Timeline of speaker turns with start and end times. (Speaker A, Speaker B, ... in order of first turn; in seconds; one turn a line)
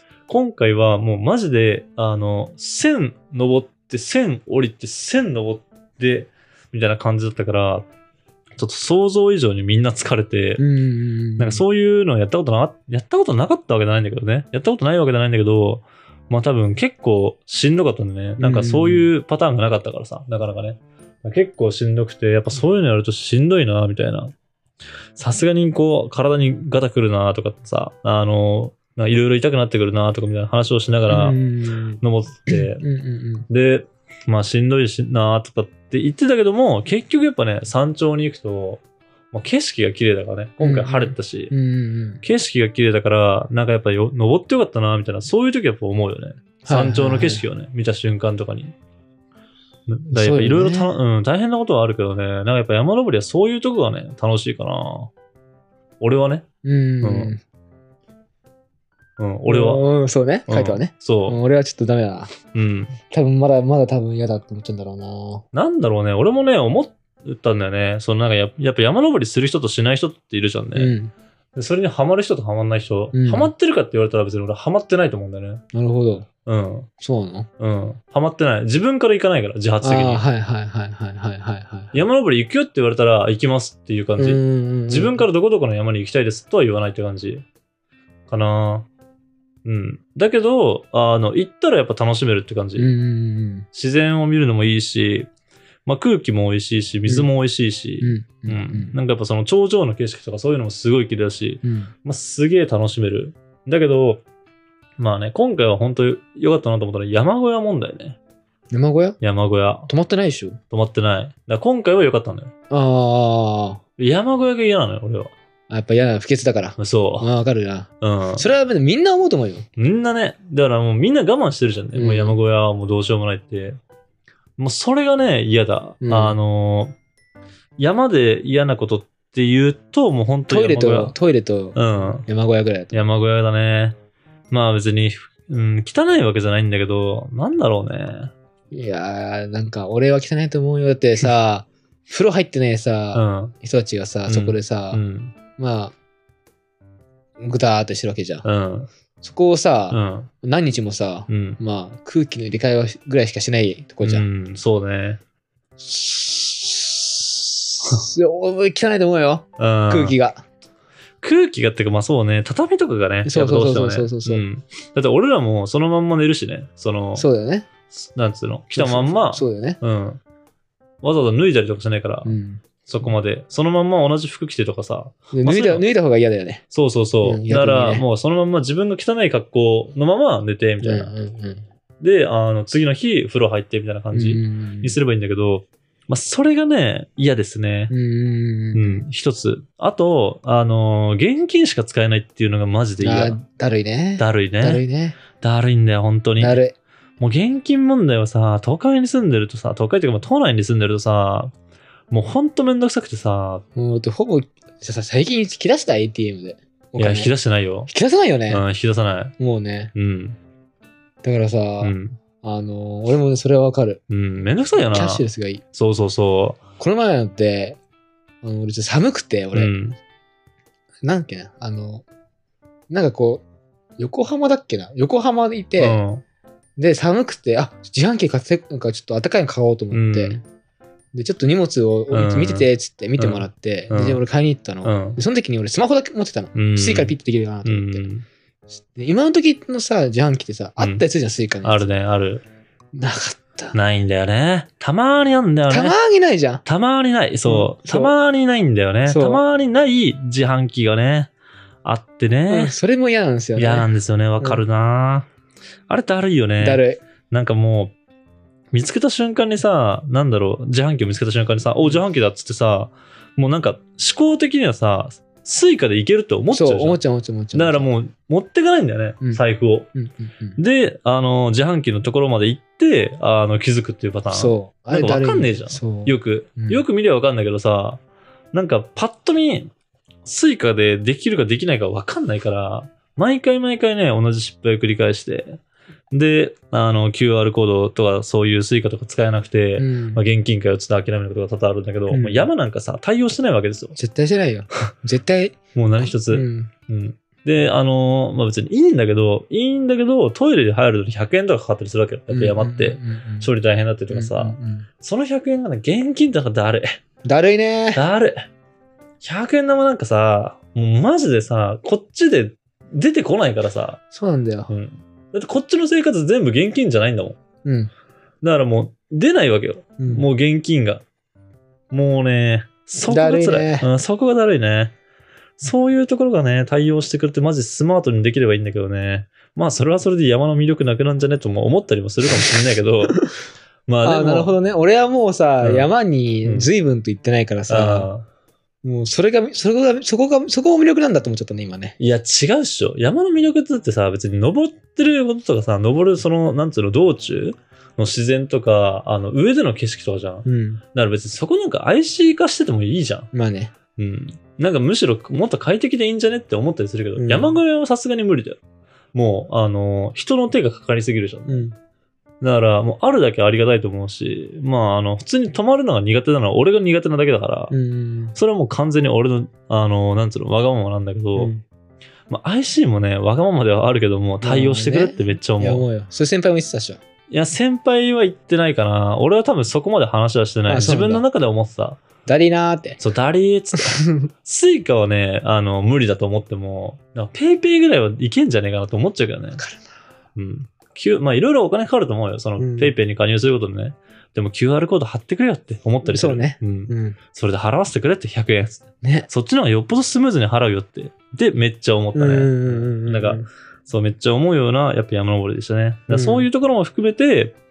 Speaker A: 0.3-7.9
Speaker A: 8.6-10.6
Speaker B: 10.6-11.6
Speaker A: 11.4-24.3
Speaker B: 18.4-19.1
Speaker A: 25.2-31.4
Speaker B: 31.1-33.5
Speaker A: 32.0-32.8
Speaker A: 33.5-41.5
Speaker B: 40.6-42.2
Speaker A: 42.2-48.7
Speaker B: 46.6-47.4
Speaker A: 49.9-55.1
Speaker B: 50.1-50.9
Speaker A: 56.0-56.5
Speaker B: 56.6-57.4
Speaker A: 57.0-57.3
Speaker A: 59.2-59.8
Speaker B: 59.5-62.3
Speaker A: 60.5-61.4
Speaker A: 62.5-63.0
Speaker B: 63.1-65.4
Speaker A: 65.5-70.9
Speaker B: 70.7-71.1
Speaker A: 71.5-75.6
Speaker B: 73.1-73.5
Speaker B: 75.7-76.3
Speaker A: 76.5-76.9
Speaker B: 77.0-77.5
Speaker A: 77.6-80.2
Speaker B: 79.8-82.0
Speaker A: 81.9-87.4
Speaker B: 84.2-85.3
Speaker A: 88.3-88.9
Speaker A: 89.6-92.9
Speaker B: 92.8-93.7
Speaker A: 93.7-95.3
Speaker A: 95.8-104.2
Speaker B: 98.0-98.9
Speaker B: 101.6-101.9
Speaker A: 105.0-108.2
Speaker B: 108.7-109.2
Speaker A: 109.2-109.9
Speaker B: 109.9-110.6
Speaker A: 110.7-112.5
Speaker B: 112.7-113.8
Speaker A: 114.0-115.3
Speaker B: 115.7-119.7
Speaker A: 116.8-117.3
Speaker A: 118.0-118.5
Speaker A: 119.8-123.8
Speaker B: 121.9-122.4
Speaker A: 124.6-126.9
Speaker B: 126.0-126.4
Speaker A: 127.8-131.2
Speaker B: 130.5-132.9
Speaker A: 131.7-132.2
Speaker A: 132.9-133.9
Speaker A: 134.5-138.3
Speaker B: 138.7-145.0
Speaker A: 143.1-143.5
Speaker A: 144.3-145.3
Speaker B: 145.6-145.9
Speaker B: 147.4-148.4
Speaker A: 148.4-148.9
Speaker B: 149.2-154.2
Speaker A: 149.9-150.3
Speaker A: 151.3-151.6
Speaker A: 154.0-155.2
Speaker B: 155.8-160.4
Speaker A: 159.6-160.1
Speaker A: 161.2-167.2
Speaker B: 163.2-164.4
Speaker B: 167.2-167.7
Speaker A: 167.9-170.2
Speaker B: 168.7-169.8
Speaker A: 171.0-175.8
Speaker B: 172.2-172.6
Speaker B: 175.3-176.6
Speaker A: 176.7-181.1
Speaker B: 177.2-178.1
Speaker B: 180.8-181.6
Speaker A: 182.0-187.9
Speaker B: 184.1-184.9
Speaker B: 187.9-189.1
Speaker A: 188.7-193.4
Speaker B: 193.0-195.2
Speaker A: 194.2-194.8
Speaker A: 195.4-196.6
Speaker B: 196.4-196.7
Speaker A: 197.2-201.5
Speaker A: 202.1-203.6
Speaker B: 203.7-207.3
Speaker A: 206.9-207.9
Speaker B: 207.9-208.6
Speaker A: 208.5-209.3
Speaker B: 209.4-209.9
Speaker A: 209.9-210.4
Speaker B: 211.2-214.0
Speaker A: 211.8-212.2
Speaker A: 214.1-216.6
Speaker B: 214.8-215.6
Speaker B: 216.8-217.8
Speaker B: 218.4-219.7
Speaker A: 219.6-220.0
Speaker B: 221.0-222.0
Speaker B: 222.9-223.4
Speaker B: 224.0-226.0
Speaker A: 225.8-226.2
Speaker B: 226.8-230.4
Speaker A: 229.9-230.4
Speaker B: 231.1-238.1
Speaker A: 232.1-234.2
Speaker A: 234.8-235.2
Speaker A: 236.6-238.2
Speaker B: 238.8-241.9
Speaker A: 240.8-241.0
Speaker A: 241.6-242.4
Speaker B: 242.9-243.8
Speaker A: 243.7-245.9
Speaker B: 245.7-246.6
Speaker A: 246.6-251.3
Speaker B: 247.5-248.1
Speaker B: 249.1-249.4
Speaker A: 251.8-252.7
Speaker B: 252.5-254.6
Speaker A: 253.6-255.3
Speaker A: 255.9-257.9
Speaker B: 256.6-257.0
Speaker A: 258.7-267.0
Speaker B: 266.5-267.9
Speaker A: 267.5-269.9
Speaker B: 269.9-270.6
Speaker A: 270.6-278.0
Speaker B: 274.3-276.8
Speaker A: 278.5-279.7
Speaker A: 280.2-285.6
Speaker A: 286.1-293.9
Speaker B: 289.8-290.2
Speaker B: 292.1-292.5
Speaker B: 293.9-296.7
Speaker A: 295.7-307.0
Speaker B: 302.3-303.5
Speaker B: 304.1-304.9
Speaker B: 307.2-308.0
Speaker A: 307.9-308.4
Speaker A: 309.2-314.0
Speaker B: 314.1-314.7
Speaker A: 314.7-317.4
Speaker B: 317.6-317.9
Speaker A: 318.4-321.0
Speaker B: 320.0-320.2
Speaker A: 321.9-324.9
Speaker B: 323.1-323.9
Speaker A: 325.6-333.2
Speaker A: 333.9-334.6
Speaker B: 334.0-338.1
Speaker A: 335.6-335.9
Speaker A: 336.4-336.7
Speaker A: 337.7-338.2
Speaker B: 338.8-342.0
Speaker A: 342.0-353.3
Speaker B: 350.4-350.8
Speaker B: 353.3-353.7
Speaker A: 353.9-358.6
Speaker B: 357.2-357.6
Speaker A: 359.1-361.7
Speaker B: 361.5-361.7
Speaker A: 362.4-367.7
Speaker B: 367.7-368.4
Speaker A: 368.3-371.5
Speaker B: 371.3-371.6
Speaker A: 372.3-375.8
Speaker B: 374.4-377.0
Speaker A: 377.3-382.0
Speaker B: 380.7-381.2
Speaker B: 382.2-383.0
Speaker A: 383.0-389.6
Speaker B: 383.8-384.2
Speaker B: 389.6-389.8
Speaker A: 390.4-407.6
Speaker B: 392.6-392.9
Speaker B: 396.0-397.2
Speaker B: 399.0-399.3
Speaker B: 402.1-403.5
Speaker B: 406.1-406.5